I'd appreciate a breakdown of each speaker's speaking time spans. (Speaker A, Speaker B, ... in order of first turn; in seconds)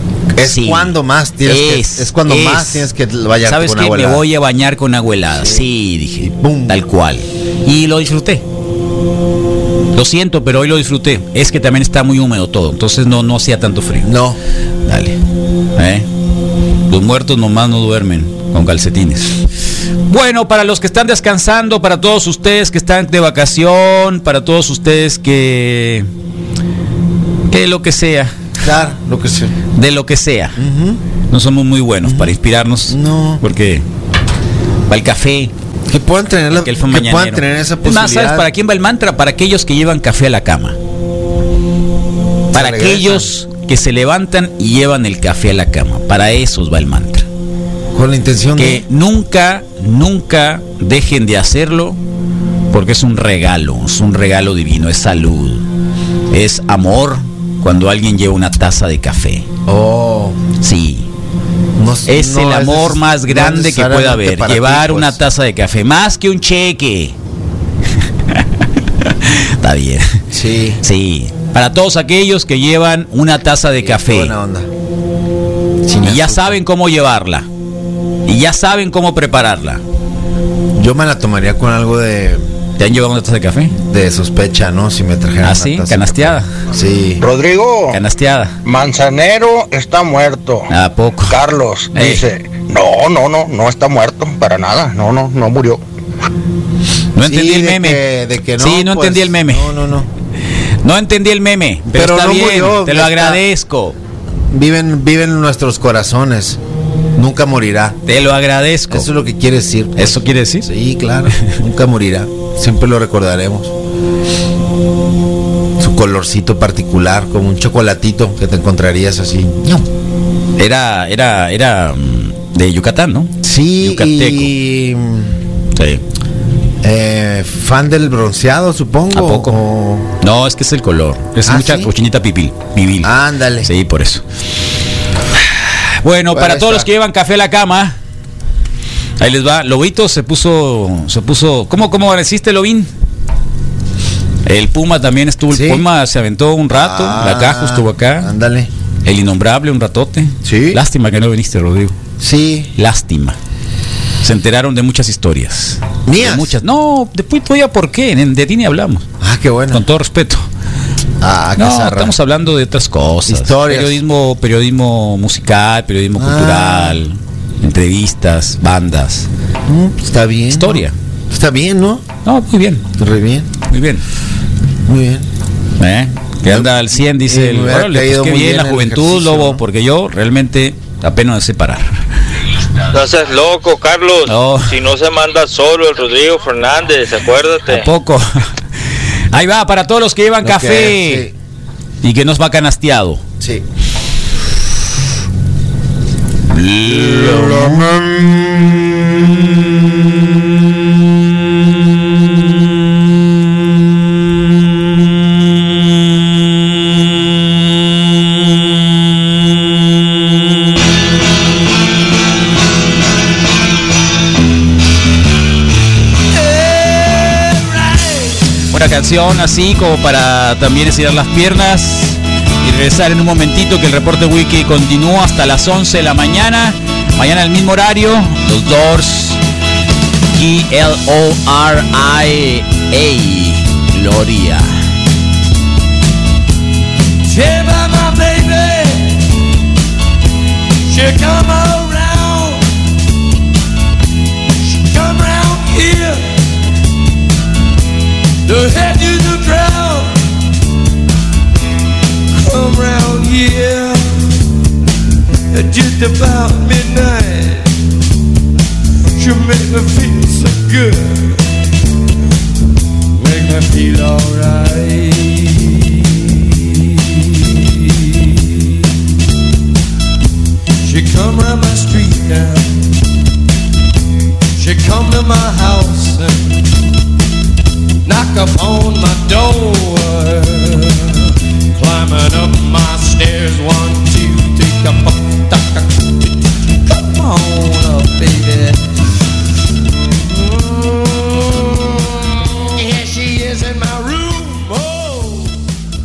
Speaker A: 0.4-4.2, 5.3-5.7, 6.2-6.8, 14.0-14.4, 28.6-29.6, 30.6-31.0, 32.0-32.4, 32.9-33.4, 35.9-38.5, 42.5-43.3, 47.9-48.8, 59.7-60.4, 61.8-65.2, 70.3-70.8, 73.8-74.7, 75.9-76.6, 80.8-82.5, 83.8-87.2, 97.3-100.1, 101.9-103.4, 104.5-106.6, 107.2-108.0, 108.9-113.7, 115.8-119.9, 123.4-125.3, 126.8-130.1, 131.5-131.9, 133.0-133.7, 136.3-136.9, 145.5-145.8, 146.7-148.7, 150.4-150.8, 152.2-152.7, 156.1-156.6, 159.2-159.8, 161.2-162.2, 163.3-164.0, 166.2-167.0, 169.7-172.1, 173.0-173.5, 174.9-175.3, 176.5-179.6, 190.4-191.3, 196.9-200.8
Speaker B: 0.4-0.9, 1.4-2.9, 3.4-8.4, 9.9-14.1, 14.9-15.2, 15.8-16.1, 16.9-19.4, 20.1-26.1, 27.5-28.4, 29.8-30.6, 31.3-33.8, 34.9-35.5, 36.5-40.8, 42.5-47.3, 48.6-52.0, 52.7-55.6, 56.3-59.5, 60.6-61.1, 62.1-67.2, 69.0-70.1, 70.8-74.3, 76.0-77.5, 78.3-79.8, 82.8-83.7, 85.4-86.5, 87.9-88.6, 90.7-91.4, 92.0-92.3, 97.2-98.0, 98.6-99.7, 100.8-104.0, 108.1-109.1, 110.0-110.7, 120.6-124.5, 125.8-126.0, 129.1-129.6, 130.2-133.1, 133.6-134.2, 135.4-138.0, 139.2-142.9, 144.5-148.3, 149.1-152.0, 152.8-153.4, 154.2-159.1, 159.7-160.4, 161.6-169.3, 170.5-170.9, 172.2-172.8, 173.7-174.0, 175.8-181.9, 184.3-184.8, 187.7-188.3, 189.3-191.3, 192.0-193.2, 196.5-197.8, 216.4-217.9, 218.7-229.4, 230.3-234.7
Speaker C: 87.2-88.0, 88.6-90.7, 91.3-95.8
Speaker D: 182.9-187.8
Speaker E: 237.2-239.2, 240.9-242.7, 244.6-246.4, 248.4-250.2, 252.4-254.3, 255.5-257.7, 259.2-261.5, 263.2-267.5, 270.8-272.8, 274.6-276.6, 278.1-281.2, 281.8-285.9, 286.9-288.8, 290.3-295.6